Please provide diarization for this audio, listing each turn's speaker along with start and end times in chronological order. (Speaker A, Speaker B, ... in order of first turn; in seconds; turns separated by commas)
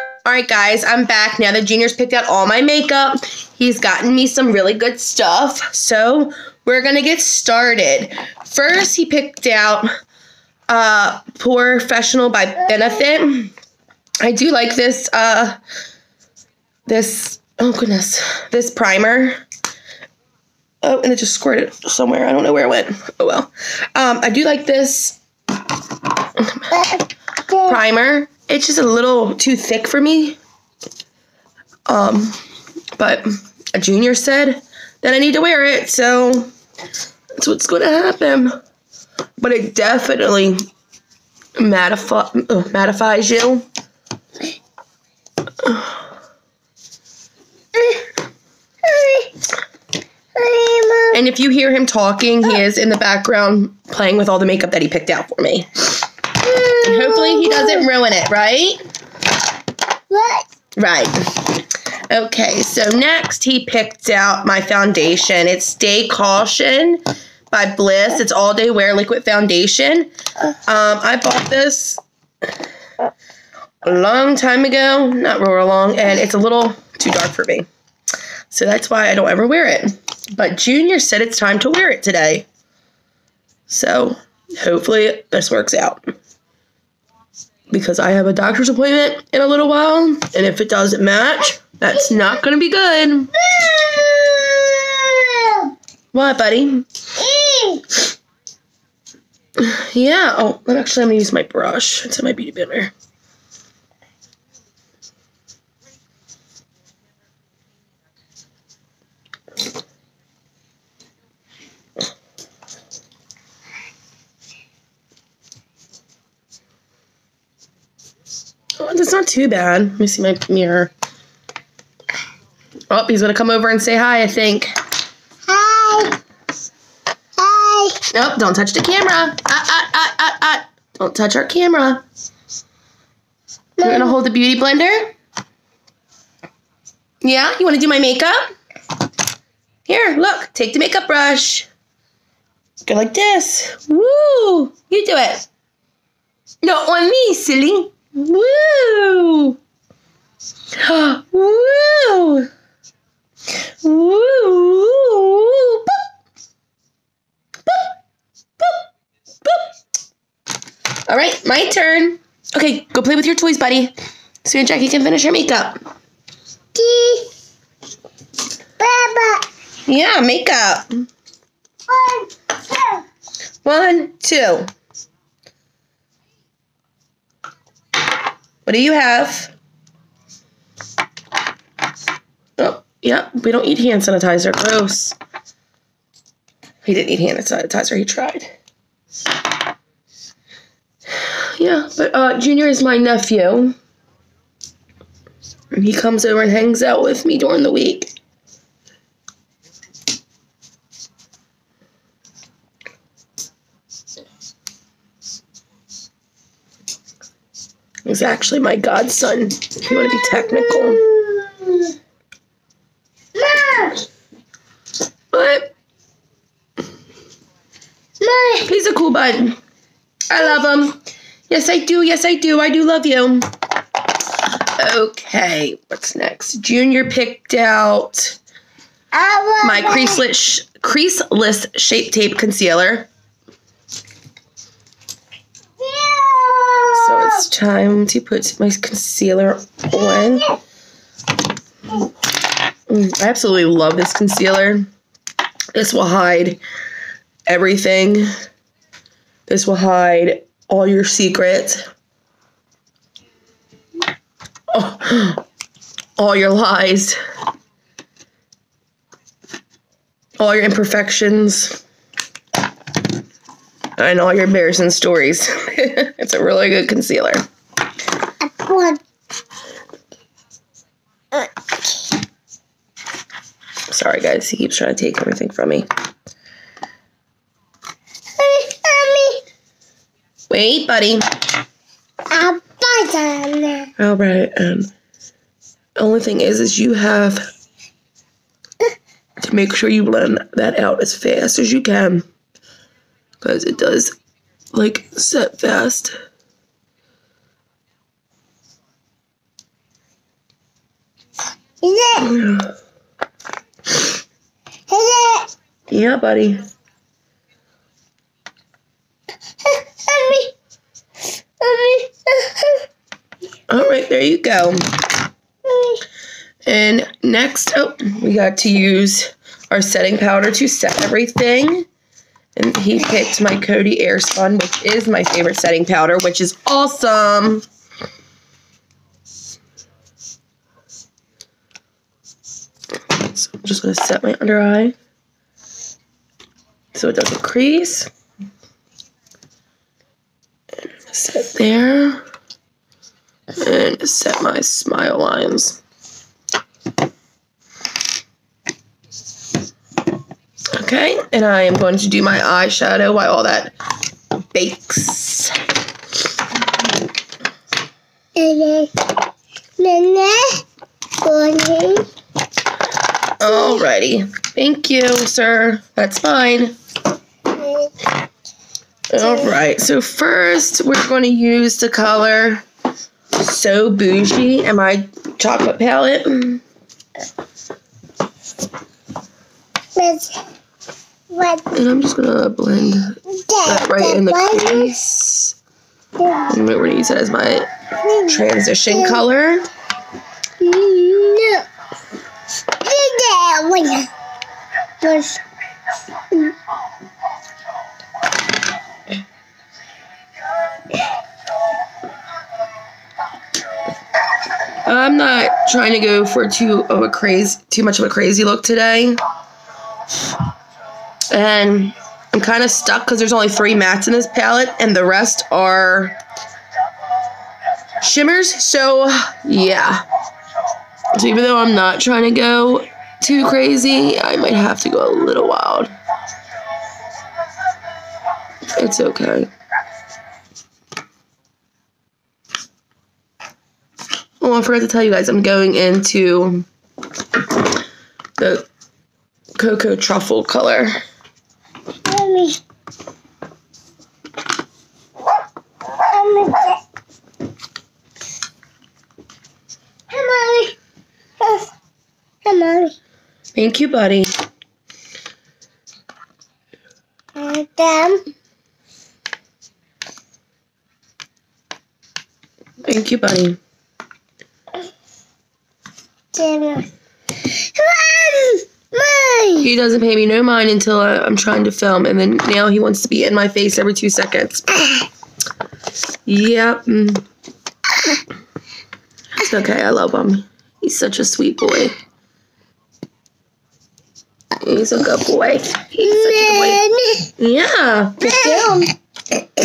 Speaker A: 0.2-9.9, Speaker A: 10.7-13.5, Speaker A: 14.2-15.6, Speaker A: 16.9-19.4, Speaker A: 20.8-25.2, Speaker A: 26.4-26.7, Speaker B: 26.7-27.8, Speaker A: 27.6-30.4, Speaker A: 31.9-32.4, Speaker A: 33.0-36.5, Speaker A: 37.4-38.5, Speaker A: 39.4-40.6, Speaker A: 41.6-43.6, Speaker A: 45.6-46.0, Speaker B: 47.7-48.0, Speaker B: 48.8-49.3, Speaker B: 50.3-51.2, Speaker A: 51.1-55.7, Speaker B: 56.4-57.9, Speaker A: 56.8-58.8, Speaker B: 60.1-60.5, Speaker A: 60.8-61.4, Speaker A: 62.1-70.1, Speaker A: 70.7-72.0, Speaker A: 73.8-77.7, Speaker A: 78.5-82.5, Speaker A: 83.7-86.1, Speaker A: 87.7-93.3, Speaker B: 93.3-95.7, Speaker A: 96.1-96.8, Speaker B: 97.2-97.8, Speaker A: 99.6-102.9, Speaker A: 118.8-120.9, Speaker A: 122.9-124.7, Speaker B: 125.5-126.2, Speaker B: 127.4-128.0, Speaker A: 128.1-132.0, Speaker B: 133.8-134.2, Speaker A: 133.8-135.1, Speaker A: 137.2-138.5, Speaker A: 139.9-141.7, Speaker A: 142.9-145.4, Speaker A: 146.6-149.6, Speaker A: 150.8-152.5, Speaker A: 153.8-156.0, Speaker A: 161.1-163.9, Speaker A: 164.4-165.8, Speaker B: 166.7-167.3, Speaker B: 168.8-169.5, Speaker A: 169.9-171.1, Speaker B: 171.9-173.0, Speaker A: 173.6-174.7, Speaker A: 178.7-179.5, Speaker A: 182.6-185.1, Speaker A: 186.8-188.5, Speaker A: 191.2-193.8, Speaker A: 195.7-198.1, Speaker A: 208.1-211.0, Speaker B: 210.0-211.9, Speaker B: 213.3-214.0, Speaker A: 215.3-215.7, Speaker B: 218.2-218.7, Speaker A: 218.6-219.6, Speaker A: 220.3-221.0, Speaker A: 221.5-223.4, Speaker A: 224.8-228.4, Speaker B: 229.1-230.2, Speaker A: 229.6-233.1, Speaker B: 235.8-237.4, Speaker A: 236.9-240.5, Speaker B: 239.9-240.5, Speaker A: 242.9-244.9, Speaker A: 245.7-246.6, Speaker A: 247.5-248.3, Speaker A: 249.5-251.8, Speaker A: 254.7-255.4, Speaker A: 256.2-257.2, Speaker A: 260.4-261.8, Speaker A: 264.0-267.4, Speaker B: 268.4-269.0, Speaker B: 271.3-271.7, Speaker A: 273.9-275.9, Speaker B: 278.4-279.4, Speaker A: 280.5-281.2, Speaker B: 282.3-283.9, Speaker A: 284.0-284.9, Speaker A: 286.0-287.4, Speaker A: 289.4-292.2, Speaker A: 293.4-294.1, Speaker A: 294.7-296.1, Speaker B: 301.8-302.4, Speaker A: 302.2-302.7, Speaker B: 304.9-305.5, Speaker A: 305.9-306.6, Speaker B: 309.6-310.5, Speaker B: 311.6-312.8, Speaker A: 313.7-314.8, Speaker B: 315.6-316.0, Speaker A: 316.6-321.9, Speaker A: 322.6-327.6, Speaker A: 333.1-334.9, Speaker A: 336.9-338.1, Speaker A: 341.1-342.2, Speaker A: 343.6-345.8, Speaker A: 350.7-353.7, Speaker A: 354.5-355.5, Speaker B: 358.4-359.1, Speaker B: 359.8-360.6, Speaker B: 361.2-362.1, Speaker A: 363.4-366.7, Speaker B: 363.5-363.8, Speaker B: 367.5-367.9, Speaker A: 369.1-372.6, Speaker B: 369.2-369.5, Speaker A: 373.4-376.6, Speaker B: 379.9-380.4, Speaker B: 381.3-381.7, Speaker A: 381.7-385.6, Speaker B: 383.3-384.9, Speaker B: 386.2-386.5, Speaker A: 386.5-387.7, Speaker B: 388.0-389.2, Speaker A: 388.2-389.7, Speaker B: 390.6-391.6, Speaker B: 392.7-394.1, Speaker B: 395.0-395.4, Speaker A: 404.9-409.2, Speaker A: 411.3-416.2, Speaker A: 418.0-420.0, Speaker A: 421.1-425.9, Speaker A: 428.8-429.5, Speaker A: 434.4-436.6, Speaker A: 438.4-438.7, Speaker A: 439.6-441.0, Speaker B: 442.0-442.6, Speaker B: 445.9-446.8, Speaker B: 450.1-450.8, Speaker B: 451.4-451.7, Speaker B: 452.4-452.9, Speaker A: 453.5-454.3, Speaker B: 457.3-458.2, Speaker A: 462.8-463.6, Speaker B: 466.3-466.9, Speaker B: 467.4-469.7, Speaker A: 469.6-475.0, Speaker A: 476.2-477.2, Speaker A: 479.4-481.9, Speaker A: 484.6-486.8, Speaker B: 486.0-487.3, Speaker A: 487.4-488.7, Speaker B: 488.2-488.9